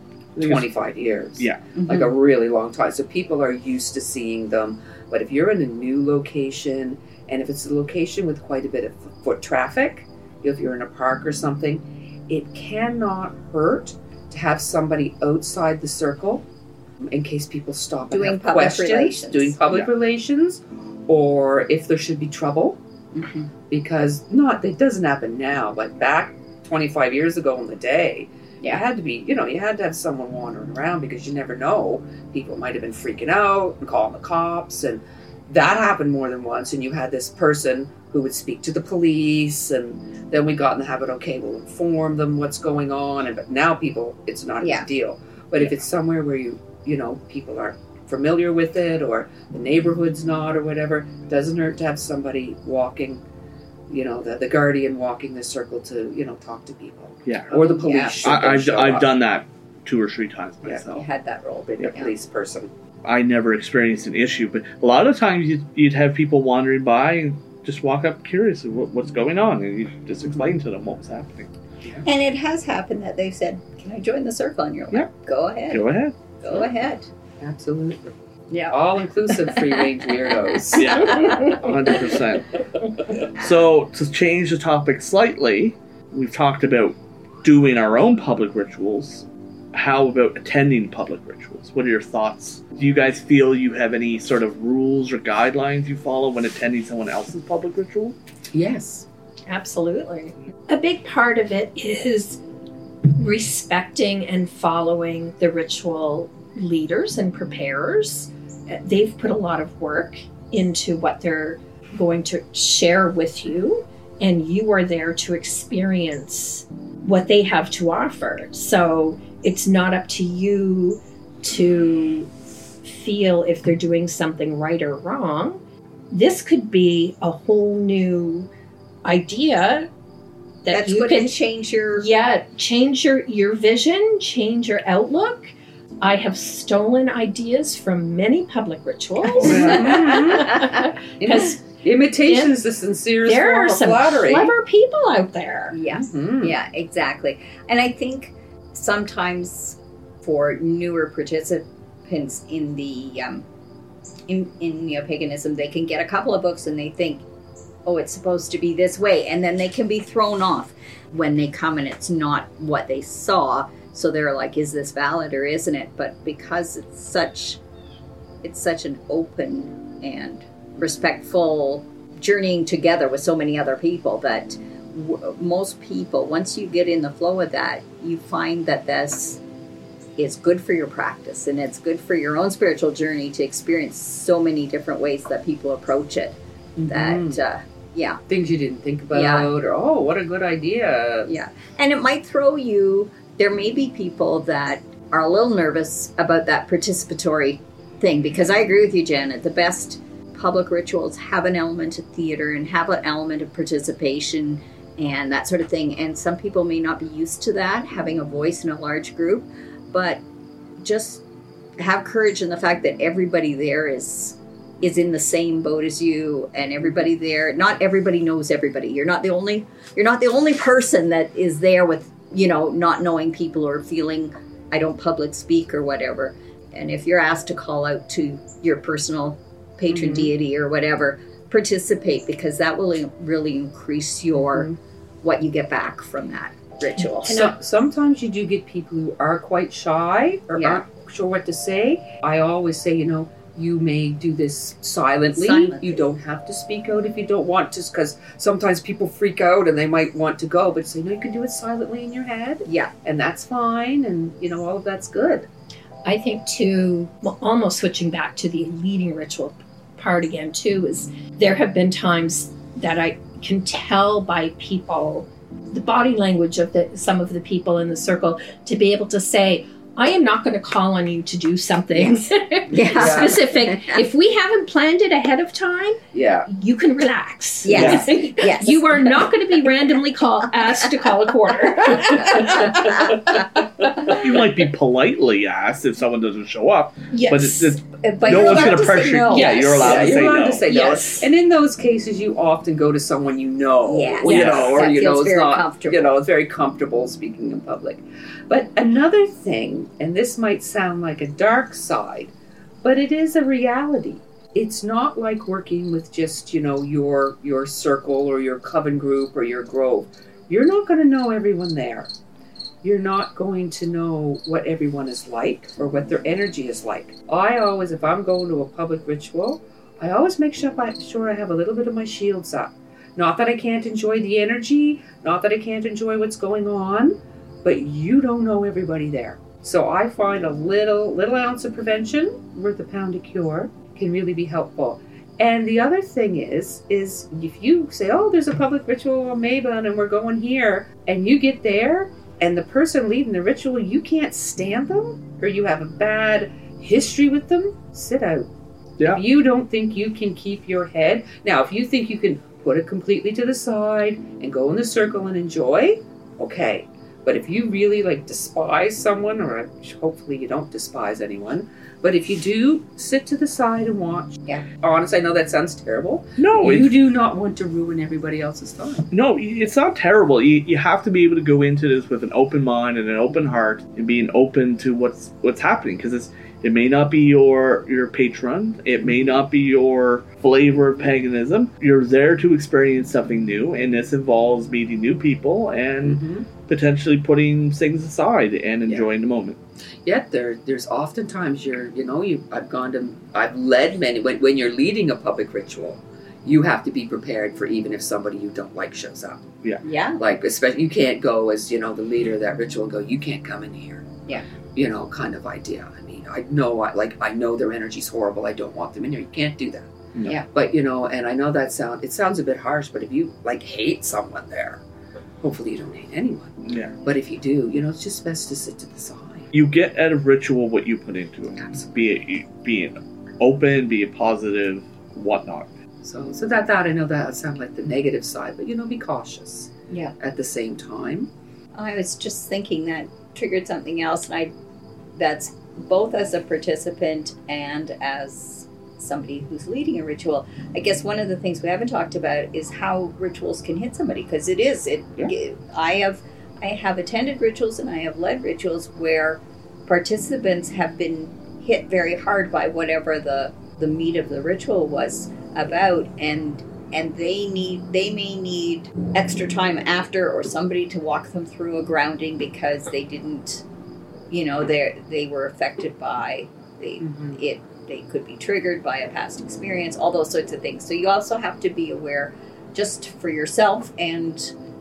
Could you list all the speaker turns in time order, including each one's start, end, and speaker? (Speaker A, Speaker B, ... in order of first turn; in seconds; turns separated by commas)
Speaker A: 0.4-16.4, Speaker B: 0.4-0.7, Speaker B: 1.4-1.7, Speaker C: 1.8-2.1, Speaker A: 17.1-22.8, Speaker C: 18.1-19.9, Speaker C: 23.1-23.5, Speaker A: 23.7-53.2, Speaker C: 44.6-44.9, Speaker A: 53.9-59.1, Speaker B: 57.3-57.5, Speaker C: 57.5-58.6, Speaker B: 58.2-61.0, Speaker A: 60.7-61.0, Speaker C: 60.8-62.1, Speaker A: 61.8-62.7, Speaker B: 63.0-71.5, Speaker C: 72.0-77.1, Speaker B: 75.7-76.2, Speaker A: 77.4-78.1, Speaker A: 78.7-81.3, Speaker C: 79.3-81.0, Speaker B: 80.8-82.5, Speaker B: 83.4-98.2, Speaker A: 98.5-99.1, Speaker D: 99.5-102.4, Speaker D: 103.1-122.3, Speaker D: 122.8-125.6, Speaker D: 126.1-128.5, Speaker D: 129.1-129.9, Speaker D: 130.6-131.3, Speaker C: 130.7-132.1, Speaker D: 132.0-141.6, Speaker A: 139.4-140.6, Speaker C: 139.4-140.0, Speaker A: 141.2-144.5, Speaker D: 142.2-142.6, Speaker D: 143.2-145.8, Speaker C: 145.7-153.5, Speaker A: 145.9-146.6, Speaker C: 154.3-157.2, Speaker C: 157.8-167.6, Speaker C: 168.4-179.4, Speaker C: 180.2-188.2, Speaker A: 186.8-187.4, Speaker A: 188.3-191.3, Speaker C: 189.1-189.5, Speaker C: 191.3-210.2, Speaker C: 210.8-211.2, Speaker C: 211.8-234.7, Speaker A: 229.9-230.3, Speaker A: 234.4-234.8, Speaker C: 235.2-237.4, Speaker D: 237.2-237.6, Speaker A: 237.3-255.5, Speaker C: 240.6-240.8, Speaker C: 245.3-246.0, Speaker C: 252.7-252.9, Speaker D: 256.1-283.4, Speaker C: 271.9-274.0, Speaker A: 272.9-273.4, Speaker A: 276.1-276.5, Speaker C: 277.6-279.3, Speaker B: 277.7-278.1, Speaker B: 284.1-290.6, Speaker D: 287.1-287.7, Speaker C: 287.9-291.3, Speaker D: 288.4-288.8, Speaker D: 289.3-289.9, Speaker A: 289.3-312.1, Speaker D: 290.7-291.2, Speaker C: 293.9-296.2, Speaker D: 294.3-294.6, Speaker B: 294.3-294.9, Speaker A: 312.8-348.5, Speaker A: 349.0-369.1, Speaker B: 366.4-367.0, Speaker B: 369.1-389.6, Speaker A: 386.0-386.5, Speaker A: 390.1-399.5, Speaker C: 399.8-400.2, Speaker A: 400.2-404.1, Speaker A: 404.8-414.8, Speaker B: 410.1-410.4, Speaker A: 415.4-419.5, Speaker B: 416.7-416.9, Speaker B: 419.5-425.7, Speaker A: 426.0-431.3, Speaker C: 431.8-434.5, Speaker C: 435.2-463.6, Speaker C: 464.3-474.5, Speaker A: 467.0-467.4